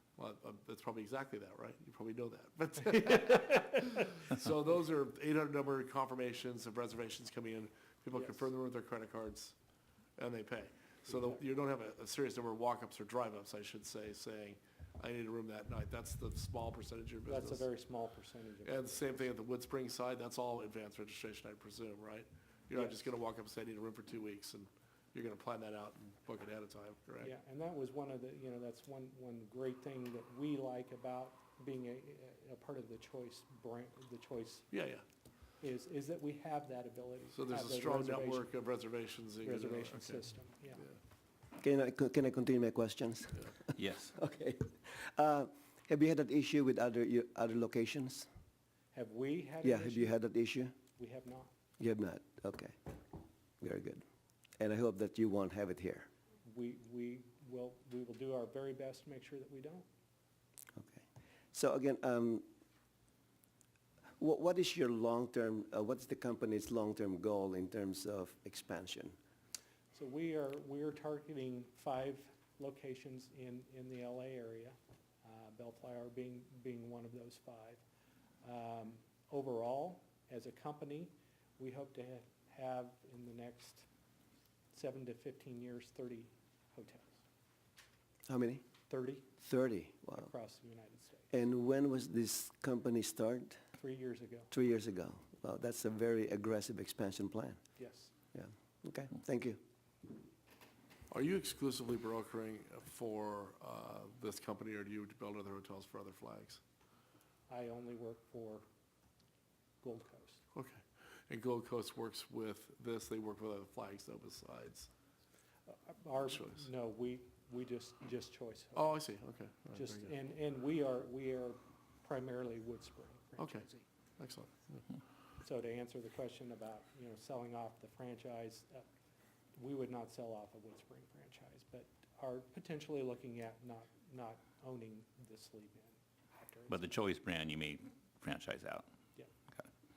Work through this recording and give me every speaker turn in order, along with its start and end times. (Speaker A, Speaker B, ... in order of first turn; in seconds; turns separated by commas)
Speaker A: 0.2-9.6, Speaker A: 10.2-17.7, Speaker B: 17.3-19.1, Speaker A: 18.6-27.3, Speaker B: 22.8-23.0, Speaker B: 27.2-34.7, Speaker A: 34.7-35.0, Speaker B: 35.6-38.5, Speaker A: 37.3-40.2, Speaker B: 39.4-40.9, Speaker C: 41.6-48.3, Speaker D: 43.8-44.1, Speaker B: 48.9-50.2, Speaker C: 49.6-50.8, Speaker B: 50.9-51.5, Speaker C: 51.8-52.9, Speaker C: 53.6-54.0, Speaker C: 54.6-56.1, Speaker B: 56.5-59.9, Speaker C: 60.8-62.5, Speaker C: 64.2-69.2, Speaker B: 69.9-77.8, Speaker B: 78.4-83.9, Speaker B: 84.7-87.2, Speaker C: 88.3-88.6, Speaker B: 88.9-89.3, Speaker C: 89.4-90.3, Speaker B: 90.1-91.3, Speaker C: 91.3-93.6, Speaker B: 93.8-94.5, Speaker C: 94.5-97.6, Speaker B: 97.8-98.1, Speaker C: 98.3-99.6, Speaker A: 101.1-106.6, Speaker B: 107.5-108.6, Speaker B: 109.8-110.4, Speaker A: 110.5-114.9, Speaker B: 115.7-118.9, Speaker A: 116.3-116.7, Speaker A: 118.8-120.2, Speaker B: 119.7-123.9, Speaker A: 123.4-123.7, Speaker A: 124.2-124.8, Speaker B: 125.4-128.9, Speaker B: 129.6-137.0, Speaker D: 136.7-138.9